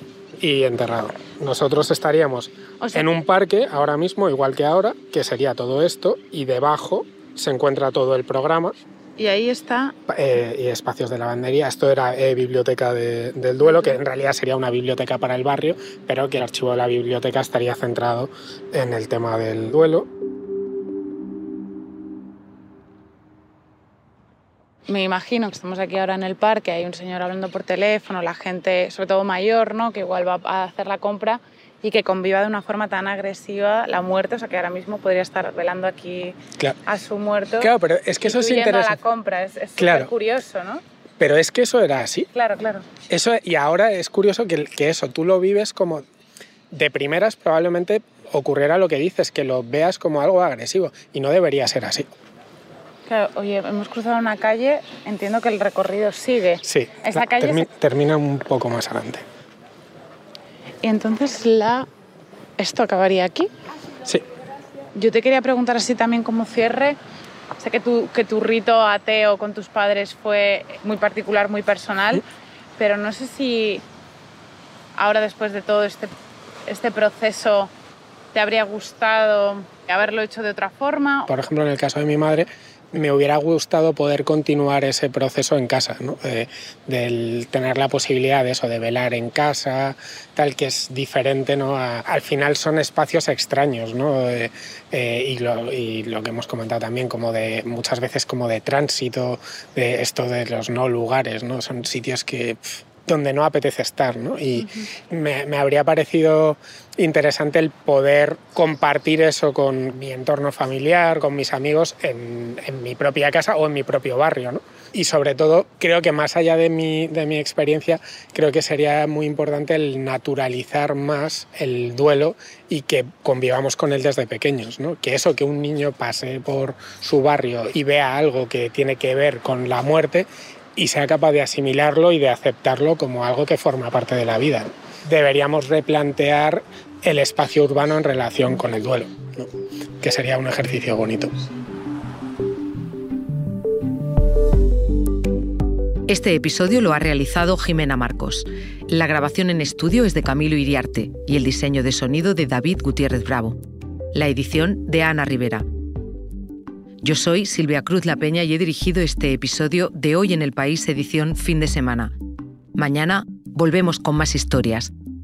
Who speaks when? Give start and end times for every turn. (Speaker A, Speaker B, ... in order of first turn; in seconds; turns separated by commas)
Speaker A: 0.4-8.8, Speaker B: 2.8-3.1, Speaker B: 9.2-9.9, Speaker A: 10.1-20.1, Speaker B: 13.6-14.0, Speaker B: 24.9-40.8, Speaker A: 37.6-39.0, Speaker A: 39.8-40.1, Speaker A: 41.2-42.3, Speaker B: 42.3-42.9, Speaker A: 43.1-46.0, Speaker A: 46.7-52.1, Speaker B: 53.1-57.7, Speaker A: 56.6-59.2, Speaker B: 60.8-61.9, Speaker B: 62.6-63.5, Speaker B: 65.0-67.0, Speaker B: 67.6-72.2, Speaker B: 72.8-73.8, Speaker B: 75.0-76.1, Speaker B: 76.7-77.7, Speaker B: 78.3-81.3, Speaker A: 81.3-139.5, Speaker A: 140.0-141.3, Speaker C: 146.1-153.6, Speaker C: 154.1-155.7, Speaker C: 157.0-162.1, Speaker C: 162.8-164.9